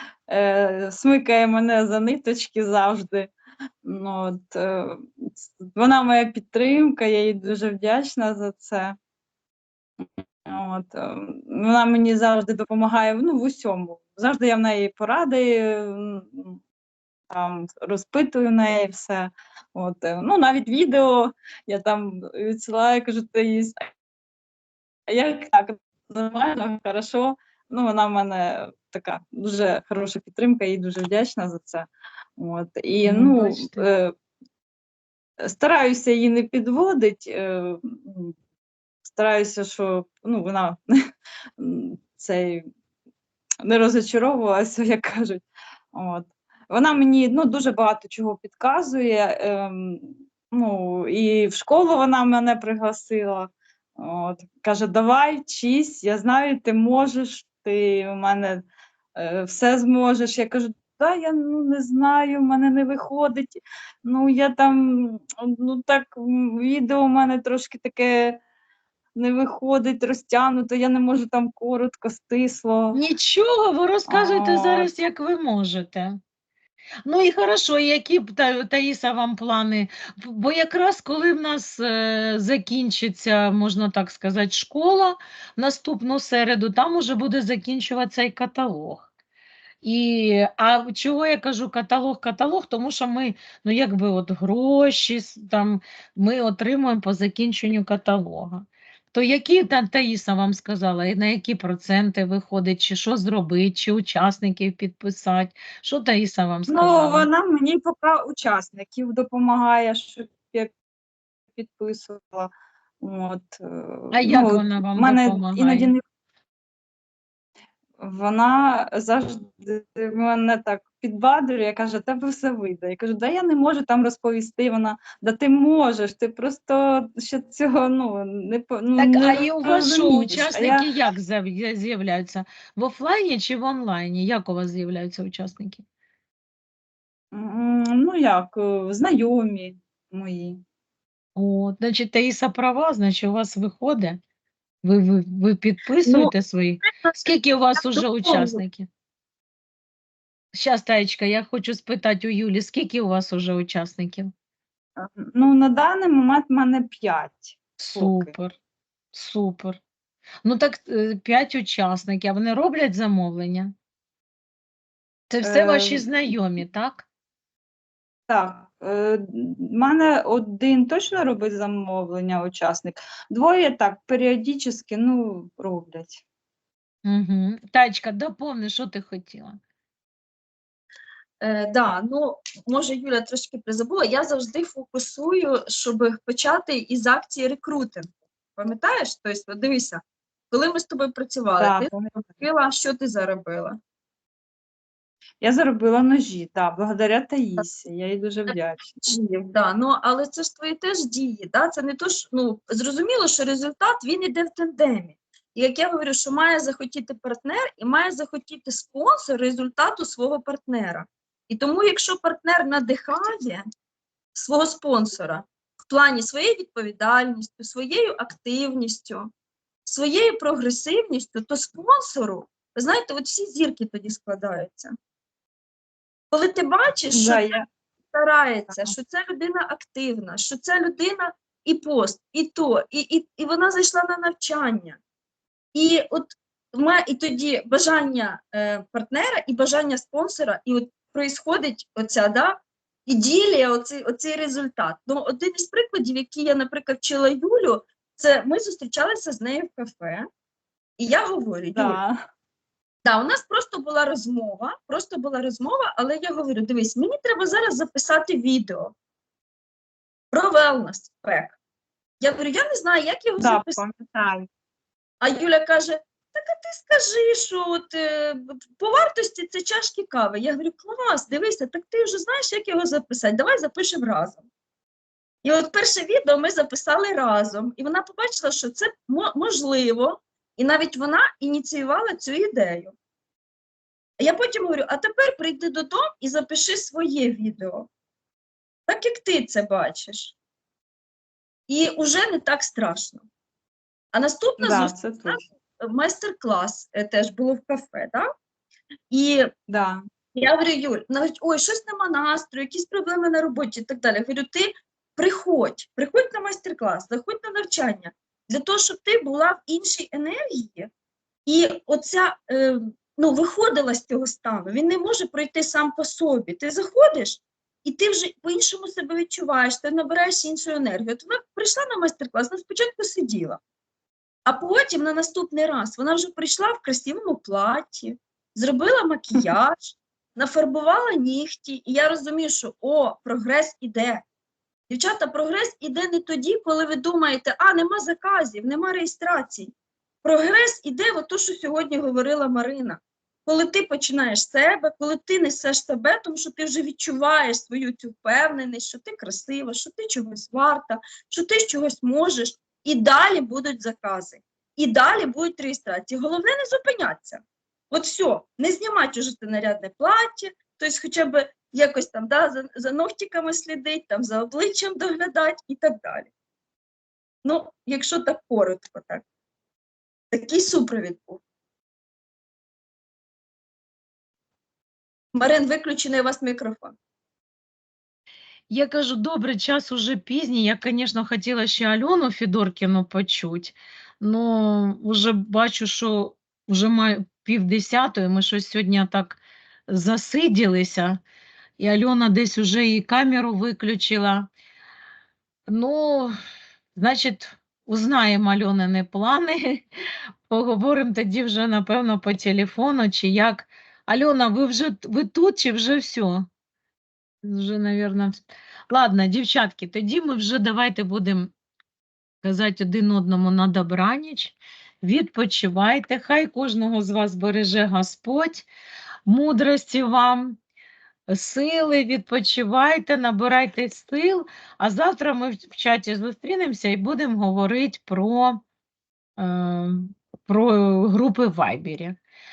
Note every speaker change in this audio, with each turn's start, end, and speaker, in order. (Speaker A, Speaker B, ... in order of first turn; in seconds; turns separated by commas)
Speaker A: 0.3-3.3, Speaker A: 3.8-9.0, Speaker A: 10.0-16.6, Speaker A: 17.3-23.8, Speaker A: 25.1-34.1, Speaker B: 33.0-33.9, Speaker A: 35.4-38.3, Speaker A: 39.0-40.8, Speaker A: 41.6-42.7, Speaker A: 43.6-58.6, Speaker A: 59.2-68.4, Speaker A: 69.2-73.0, Speaker B: 72.9-76.2, Speaker A: 74.1-74.9, Speaker B: 77.0-89.1, Speaker B: 89.8-107.3, Speaker A: 106.7-110.7, Speaker A: 111.5-116.0, Speaker B: 114.1-115.9, Speaker A: 118.0-130.8, Speaker B: 129.0-135.8, Speaker A: 137.3-140.6, Speaker B: 141.4-144.2, Speaker B: 144.8-148.9, Speaker C: 146.1-146.3, Speaker C: 146.9-147.2, Speaker C: 147.8-148.6, Speaker B: 150.5-154.3, Speaker A: 155.0-158.3, Speaker B: 157.8-158.5, Speaker B: 159.1-159.8, Speaker B: 160.4-163.7, Speaker B: 165.3-167.1, Speaker A: 165.4-166.0, Speaker A: 168.3-176.2, Speaker B: 177.0-179.6, Speaker C: 181.4-193.8, Speaker A: 191.6-192.3, Speaker A: 195.4-199.0, Speaker C: 199.0-213.6, Speaker C: 214.3-219.3, Speaker C: 219.9-224.9, Speaker C: 226.3-227.6, Speaker A: 227.1-227.7, Speaker C: 228.1-235.0, Speaker C: 235.7-250.3, Speaker C: 251.0-252.0, Speaker A: 251.8-252.2, Speaker C: 253.0-258.9, Speaker C: 260.3-261.6, Speaker C: 262.2-263.8, Speaker A: 263.4-264.5, Speaker C: 265.2-274.4, Speaker C: 275.4-282.9, Speaker C: 284.2-287.9, Speaker C: 288.9-290.4, Speaker C: 291.7-293.2, Speaker C: 294.1-298.3, Speaker A: 294.6-295.4, Speaker C: 299.1-299.5, Speaker A: 299.7-300.0, Speaker C: 300.4-310.9, Speaker C: 311.5-323.6, Speaker C: 324.5-334.2, Speaker C: 334.9-339.7, Speaker C: 340.2-366.3, Speaker C: 367.4-369.2, Speaker C: 370.3-371.4, Speaker C: 375.4-376.9, Speaker B: 378.7-391.2, Speaker B: 391.8-394.5, Speaker B: 395.7-396.4, Speaker B: 397.0-399.9, Speaker B: 400.5-406.5, Speaker B: 407.4-411.5, Speaker B: 412.4-418.7, Speaker B: 419.3-420.6, Speaker B: 421.3-428.6, Speaker B: 429.4-432.2